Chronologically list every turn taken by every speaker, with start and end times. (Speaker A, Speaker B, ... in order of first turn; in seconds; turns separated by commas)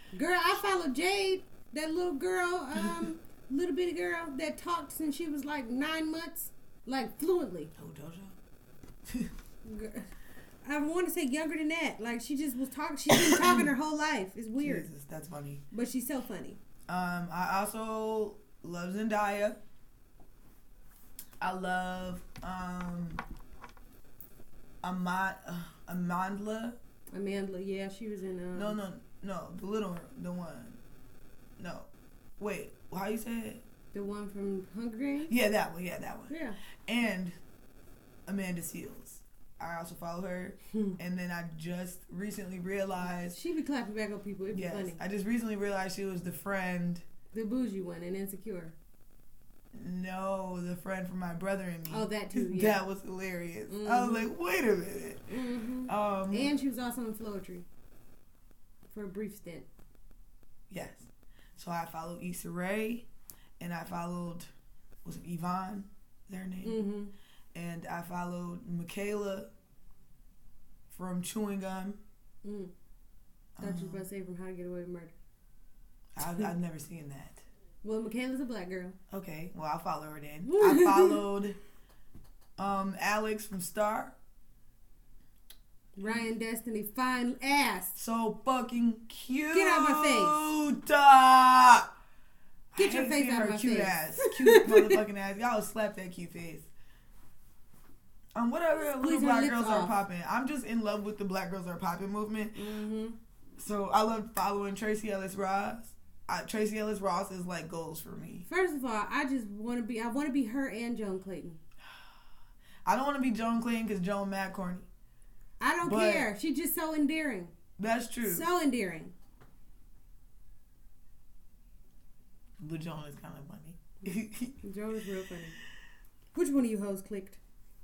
Speaker A: 0.1-7.7, Speaker B: 2.8-3.1, Speaker B: 7.8-8.4, Speaker B: 9.1-9.3, Speaker A: 9.6-10.1, Speaker A: 10.6-14.9, Speaker B: 13.1-13.7, Speaker B: 14.6-15.6, Speaker A: 15.7-16.6, Speaker B: 16.9-19.6, Speaker B: 21.4-23.2, Speaker B: 24.8-26.8, Speaker A: 27.1-28.8, Speaker B: 28.5-30.8, Speaker B: 31.6-33.6, Speaker A: 33.9-35.3, Speaker B: 35.3-37.4, Speaker A: 36.3-36.6, Speaker B: 38.2-43.4, Speaker A: 43.3-45.0, Speaker B: 44.5-47.0, Speaker A: 47.3-48.8, Speaker B: 49.7-55.3, Speaker A: 51.9-52.8, Speaker A: 53.7-54.3, Speaker A: 55.3-57.6, Speaker B: 55.9-56.5, Speaker A: 58.9-59.7, Speaker B: 60.7-63.1, Speaker B: 63.6-64.5, Speaker B: 65.0-66.8, Speaker A: 66.6-67.1, Speaker B: 67.5-69.5, Speaker B: 70.9-72.0, Speaker A: 72.4-72.7, Speaker B: 73.5-74.0, Speaker A: 73.6-75.1, Speaker B: 76.2-77.4, Speaker A: 77.8-79.0, Speaker B: 79.1-81.6, Speaker A: 80.5-81.2, Speaker B: 82.6-84.2, Speaker A: 86.0-88.0, Speaker B: 88.0-91.9, Speaker A: 89.5-90.3, Speaker B: 92.7-96.7, Speaker A: 92.8-95.0, Speaker B: 98.3-102.6, Speaker A: 98.9-99.9, Speaker A: 102.5-103.2, Speaker B: 103.6-108.4, Speaker A: 108.5-111.6, Speaker B: 112.8-114.9, Speaker A: 115.6-117.5, Speaker B: 115.8-116.3, Speaker B: 117.8-118.5, Speaker A: 118.2-119.1, Speaker B: 122.6-124.6, Speaker A: 124.6-125.6, Speaker A: 126.3-127.4